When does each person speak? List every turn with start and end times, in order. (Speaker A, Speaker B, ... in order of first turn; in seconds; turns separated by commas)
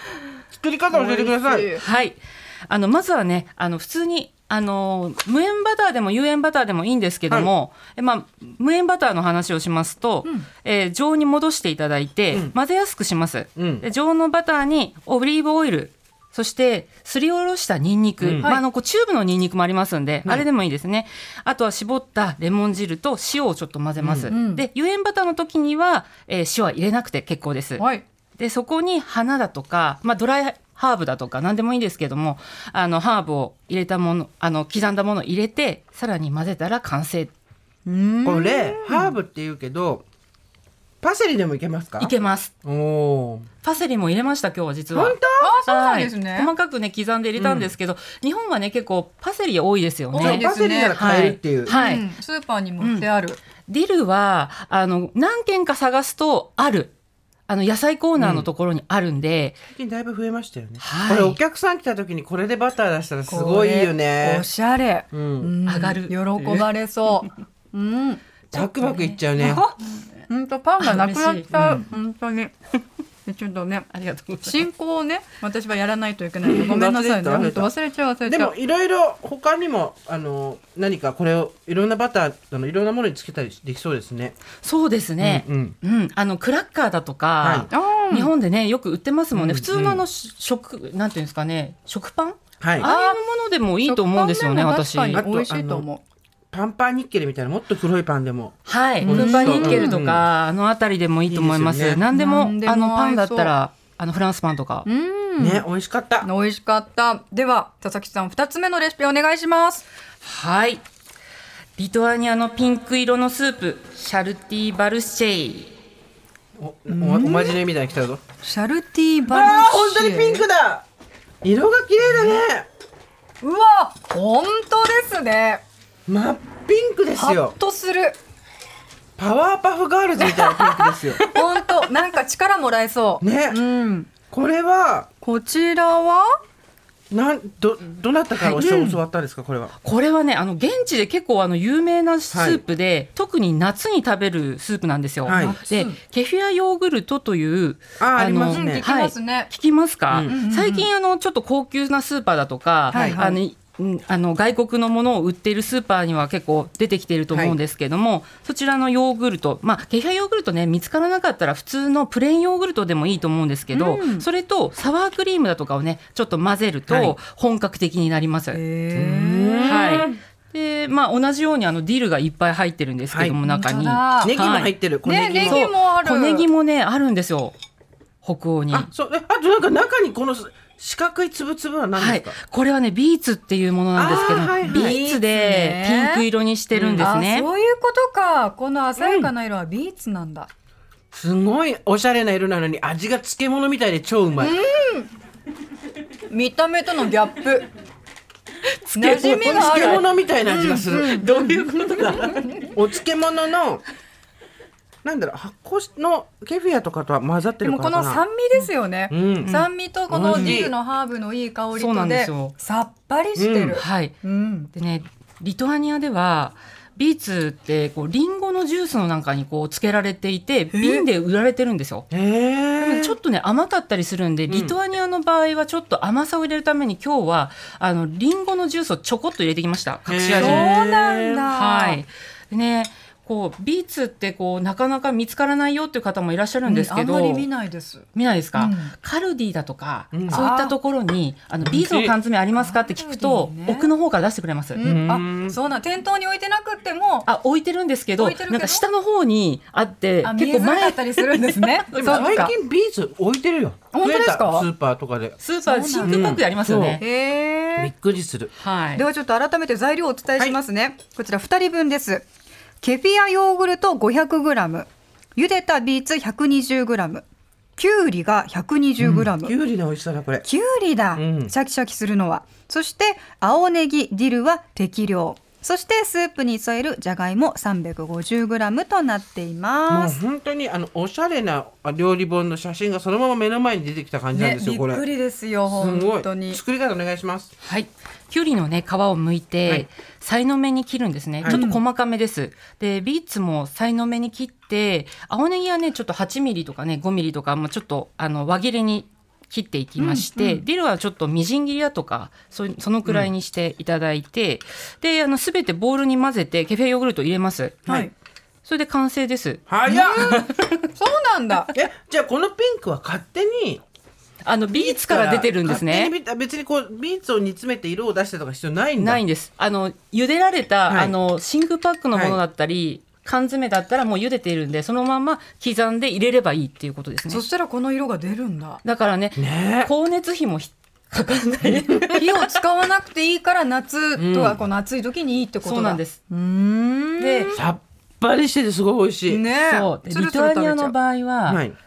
Speaker A: 0.5-1.7, Speaker B: 0.9-1.8, Speaker C: 1.7-27.9, Speaker A: 12.3-12.6, Speaker A: 13.6-13.9, Speaker A: 18.2-18.6, Speaker B: 18.4-18.6, Speaker A: 24.0-24.3, Speaker B: 24.3-24.6, Speaker B: 27.8-28.0, Speaker C: 28.4-37.3, Speaker B: 37.9-39.1, Speaker A: 38.2-40.0, Speaker A: 41.0-42.1, Speaker C: 42.0-42.5, Speaker A: 42.6-43.5, Speaker C: 43.6-52.1, Speaker A: 44.9-45.6, Speaker B: 45.4-46.5, Speaker A: 47.4-47.7, Speaker B: 50.1-51.0, Speaker A: 50.2-51.8, Speaker B: 51.7-53.4, Speaker C: 52.8-53.1, Speaker C: 53.7-56.9, Speaker C: 57.5-59.6, Speaker A: 58.2-58.5, Speaker A: 59.7-64.5, Speaker C: 60.8-61.4, Speaker B: 63.3-68.2, Speaker A: 65.1-65.5, Speaker C: 65.7-66.7, Speaker A: 68.5-69.6, Speaker C: 68.5-69.2, Speaker B: 69.4-72.5, Speaker C: 70.8-71.8, Speaker A: 71.5-71.9, Speaker B: 73.2-73.9, Speaker C: 73.9-74.7, Speaker B: 74.4-78.5, Speaker A: 76.4-77.7, Speaker A: 78.2-84.4, Speaker C: 84.6-95.2, Speaker A: 85.2-85.8, Speaker A: 87.4-87.7, Speaker B: 87.7-88.3, Speaker A: 89.3-90.0, Speaker A: 92.6-92.9, Speaker B: 92.8-93.2, Speaker B: 93.8-96.0, Speaker A: 95.1-95.8, Speaker A: 96.5-100.3, Speaker C: 98.7-104.9, Speaker B: 99.0-100.0, Speaker A: 101.3-102.0, Speaker B: 102.1-103.5, Speaker B: 104.8-105.6, Speaker A: 105.4-106.3, Speaker B: 106.2-109.8, Speaker C: 110.2-110.8, Speaker C: 111.8-115.7, Speaker A: 116.6-118.2, Speaker B: 116.9-117.6, Speaker B: 118.4-120.5, Speaker A: 119.3-120.8, Speaker A: 121.4-122.7, Speaker B: 122.0-122.4, Speaker B: 123.4-125.6, Speaker A: 126.1-127.6, Speaker B: 127.2-128.2, Speaker A: 129.2-131.2, Speaker B: 130.2-134.1, Speaker A: 133.2-133.6, Speaker A: 134.3-135.1, Speaker B: 135.2-136.3, Speaker A: 137.1-139.8, Speaker B: 138.4-139.0, Speaker C: 139.8-168.6, Speaker A: 142.3-142.6, Speaker A: 145.2-145.6, Speaker B: 145.3-146.0, Speaker A: 148.0-148.8, Speaker B: 148.5-149.5, Speaker B: 150.3-150.9, Speaker B: 152.9-153.4, Speaker A: 157.3-157.6, Speaker B: 163.7-164.3, Speaker A: 166.9-167.2, Speaker B: 168.5-170.1, Speaker A: 168.9-170.2, Speaker C: 169.7-174.7, Speaker A: 173.1-173.4, Speaker B: 173.4-174.4, Speaker A: 174.2-175.7, Speaker B: 175.0-176.5, Speaker C: 175.4-177.6, Speaker C: 178.2-178.9, Speaker A: 178.7-182.4, Speaker C: 181.9-187.5, Speaker A: 184.0-185.2, Speaker B: 184.7-186.2, Speaker A: 186.7-187.1, Speaker B: 187.0-190.5, Speaker A: 189.0-189.3, Speaker A: 191.1-194.6, Speaker B: 194.4-195.1, Speaker B: 196.3-197.7, Speaker C: 198.9-200.1, Speaker B: 199.0-202.4, Speaker A: 199.0-201.2, Speaker C: 200.8-202.7, Speaker A: 202.0-203.8, Speaker A: 205.0-208.2, Speaker B: 207.6-214.7, Speaker A: 209.1-209.5, Speaker C: 209.4-209.7, Speaker A: 210.1-210.7, Speaker C: 210.3-210.6, Speaker C: 211.7-212.6, Speaker A: 213.4-213.8, Speaker C: 213.7-214.2, Speaker C: 214.7-222.1, Speaker B: 220.7-221.1, Speaker A: 222.1-223.2, Speaker C: 222.8-230.7, Speaker A: 224.5-224.8, Speaker A: 230.1-231.4, Speaker B: 230.4-232.0, Speaker C: 231.5-237.5, Speaker B: 236.7-238.9, Speaker C: 238.1-244.8, Speaker A: 240.1-240.4, Speaker B: 240.3-240.8, Speaker A: 241.6-242.2, Speaker B: 242.6-243.9, Speaker B: 244.7-247.3, Speaker A: 244.8-245.6, Speaker C: 247.3-252.4, Speaker B: 248.2-248.8, Speaker B: 250.2-252.5, Speaker A: 251.9-255.4, Speaker B: 253.9-254.7, Speaker C: 255.4-257.0, Speaker B: 255.6-256.3, Speaker A: 256.1-257.0, Speaker B: 257.0-257.9, Speaker A: 257.8-258.5, Speaker C: 258.6-259.1, Speaker B: 259.0-262.2, Speaker B: 262.8-267.2, Speaker B: 267.8-269.6, Speaker A: 269.0-270.5, Speaker B: 270.4-280.2, Speaker A: 271.1-271.5, Speaker A: 279.9-285.0, Speaker B: 284.3-286.6, Speaker A: 285.7-287.5, Speaker C: 287.6-308.1, Speaker B: 291.5-291.8, Speaker B: 300.0-300.6, Speaker A: 303.1-303.3, Speaker B: 307.9-308.1, Speaker C: 308.7-310.9, Speaker A: 309.7-310.4, Speaker B: 309.9-311.7, Speaker A: 311.8-313.8, Speaker C: 314.4-316.1, Speaker A: 314.7-319.2, Speaker C: 319.0-327.4, Speaker A: 320.9-321.2, Speaker A: 322.1-322.4, Speaker B: 327.3-328.8, Speaker C: 328.8-332.4, Speaker A: 329.4-329.9, Speaker B: 332.1-337.6, Speaker A: 334.2-334.6, Speaker C: 335.6-336.2, Speaker C: 337.2-337.6, Speaker A: 337.5-339.4, Speaker B: 339.3-340.9, Speaker C: 339.6-341.6, Speaker A: 341.5-341.8